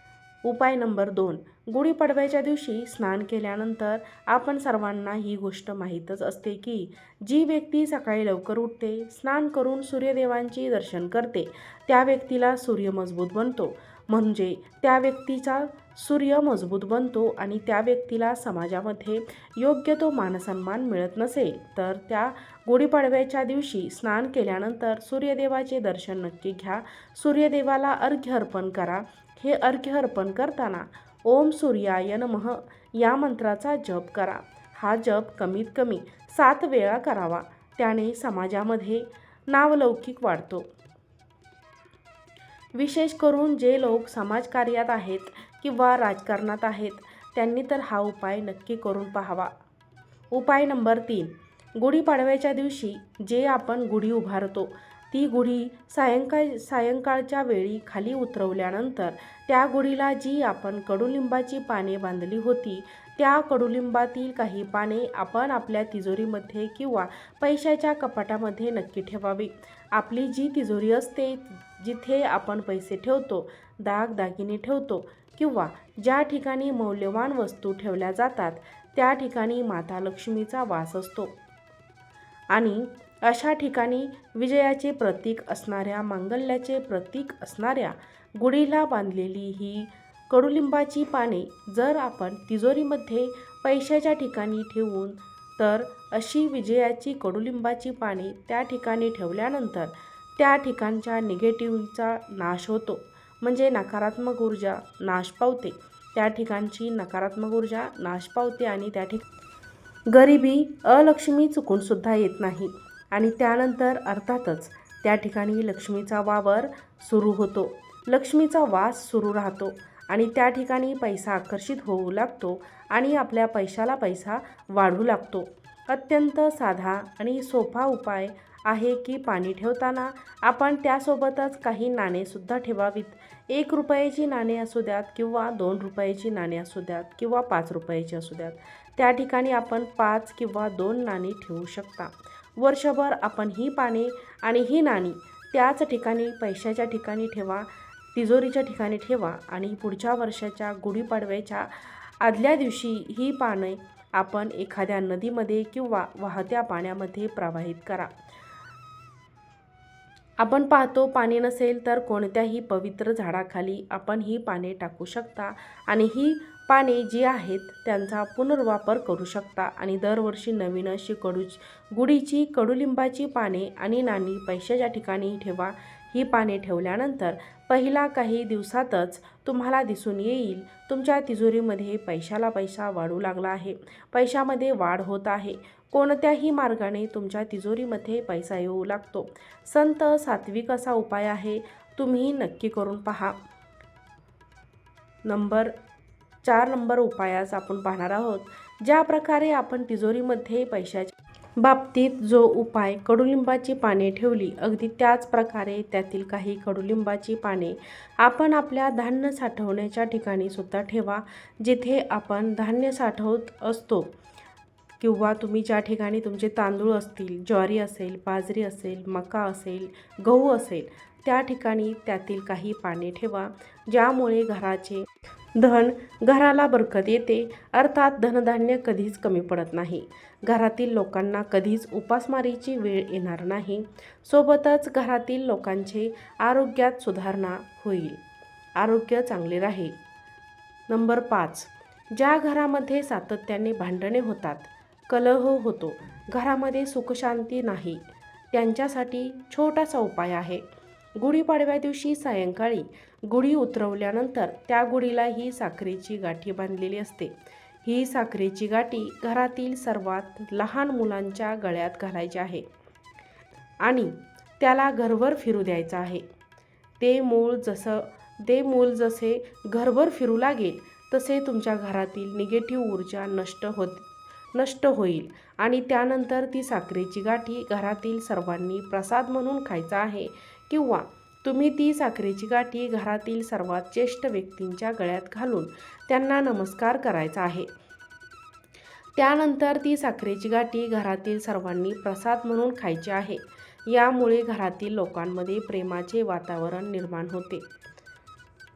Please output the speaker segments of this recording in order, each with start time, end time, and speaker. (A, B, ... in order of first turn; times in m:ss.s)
0:00.4-0:40.7 A
0:42.8-0:49.5 A
0:50.3-1:21.4 A
1:22.5-1:49.2 A
1:50.1-2:38.1 A
2:40.4-3:13.4 A
3:15.2-3:15.7 A
3:16.4-3:34.1 A
3:35.0-3:58.2 A
3:58.8-4:00.0 A
4:00.9-4:10.6 A
4:11.2-4:22.7 A
4:23.8-4:26.2 A
4:27.0-4:47.7 A
4:49.2-4:57.7 A